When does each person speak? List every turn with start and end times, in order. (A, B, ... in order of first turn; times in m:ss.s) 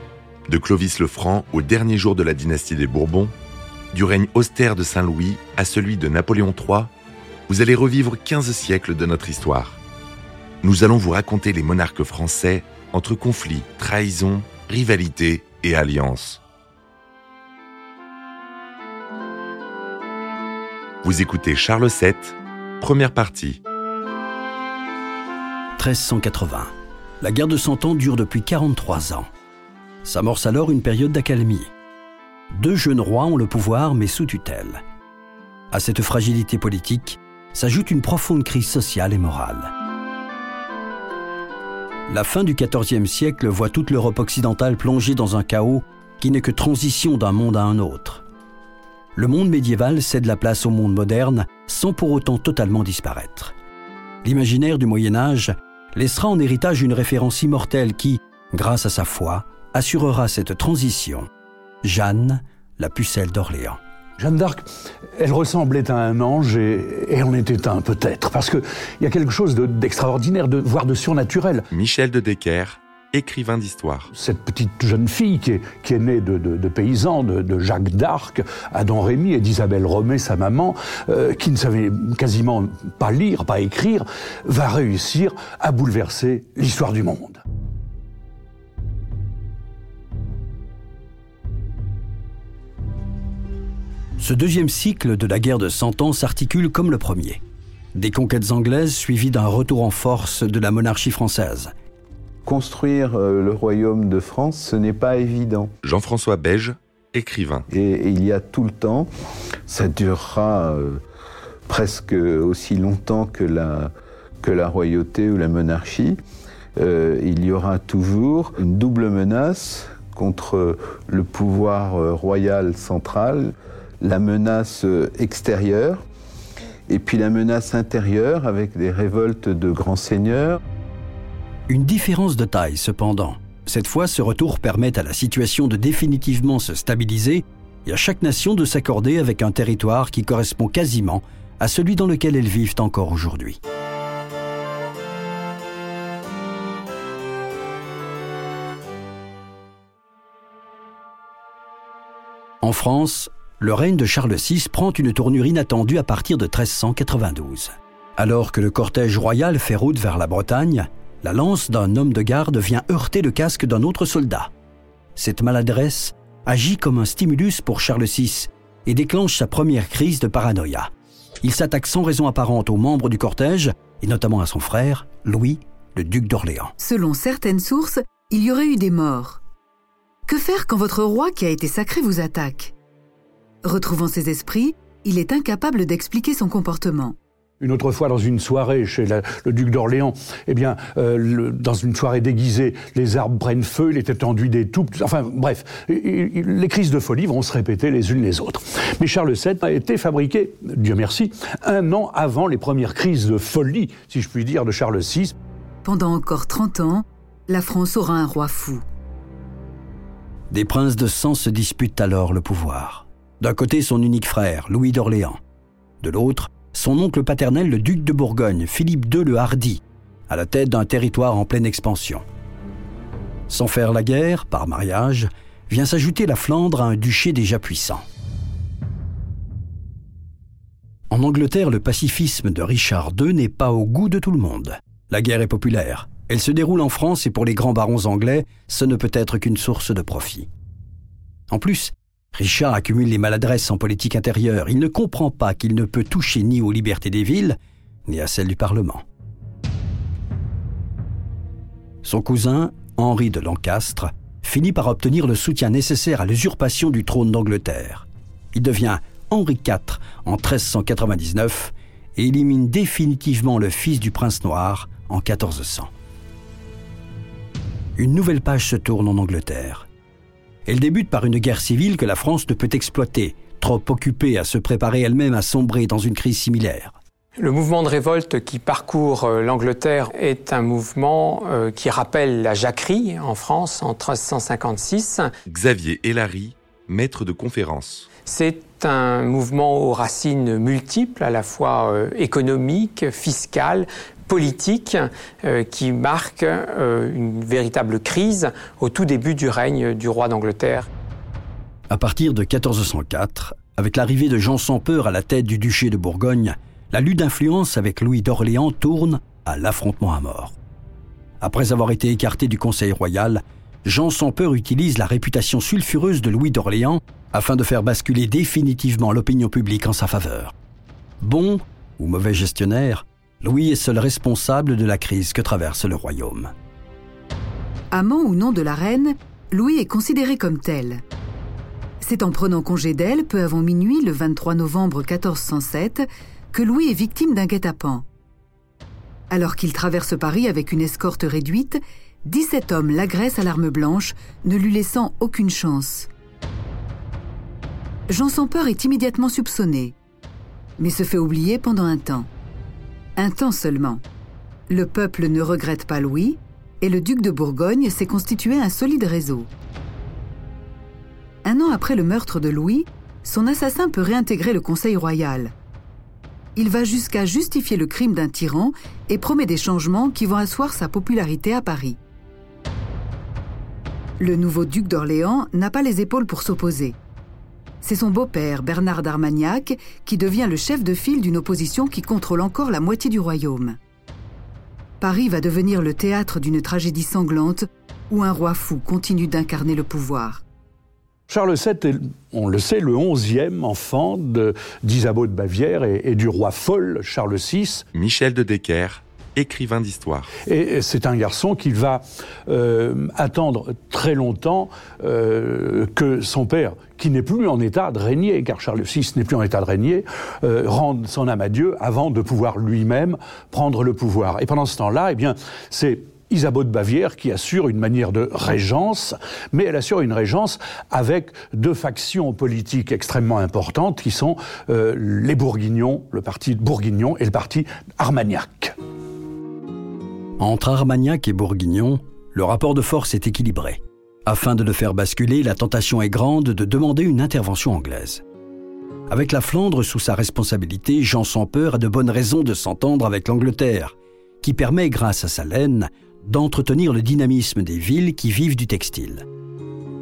0:00.5-0:03.3 A
0:03.9-0:06.9 A
0:07.5-0:09.8 A
0:10.6-0:16.4 A
0:21.0-0:23.6 A
0:25.8-0:29.3 B
0:30.0-0:31.7 B
0:32.5-0:34.8 B
0:35.7-0:39.7 B
0:42.1-0:48.2 B
0:49.2-0:53.5 B
0:54.2-1:01.3 B
1:01.8-1:03.8 B
1:04.2-1:04.6 C
1:05.2-1:11.7 C
1:11.7-1:14.1 A
1:14.1-1:27.4 C
1:34.2-1:37.4 B
1:37.9-1:41.7 B
1:42.4-1:45.7 D
1:45.8-1:47.6 A
1:47.7-1:49.1 D
1:49.7-1:51.0 D
1:51.7-1:56.2 D
1:56.8-2:06.0 D
2:06.9-2:10.6 D
2:11.7-2:23.6 B
2:32.6-2:44.5 B
2:45.1-2:50.9 B
2:51.4-2:56.7 B
2:56.8-2:59.4 E
3:00.3-3:02.7 E
3:03.6-3:07.2 E
3:07.6-3:25.3 C
3:25.8-3:28.8 E
3:30.5-3:35.4 B
3:36.0-3:42.2 B
3:43.5-3:48.0 B
3:51.1-4:00.5 B
4:01.5-4:09.0 B
4:12.0-4:25.9 B
4:28.0-4:29.9 B
4:30.6-4:37.0 B
4:37.4-4:45.3 F
4:45.5-4:48.1 A
4:48.2-5:00.9 F
5:01.9-5:10.6 B
5:11.4-5:20.5 B
5:21.2-5:26.5 B
5:27.9-5:31.0 E
5:32.0-5:38.0 E
5:39.3-5:46.1 E
5:48.1-5:49.9 E
5:50.8-5:52.3 E
5:53.2-5:54.0 E
5:54.7-5:59.5 E
6:01.4-6:05.5 E
6:06.6-6:12.0 E
6:14.2-6:17.0 E
6:17.8-6:23.8 E
6:25.0-6:30.4 E
6:31.3-6:37.8 C
6:37.9-6:40.3 A
6:40.4-7:08.7 C
7:10.4-7:18.2 B
7:19.1-7:29.2 B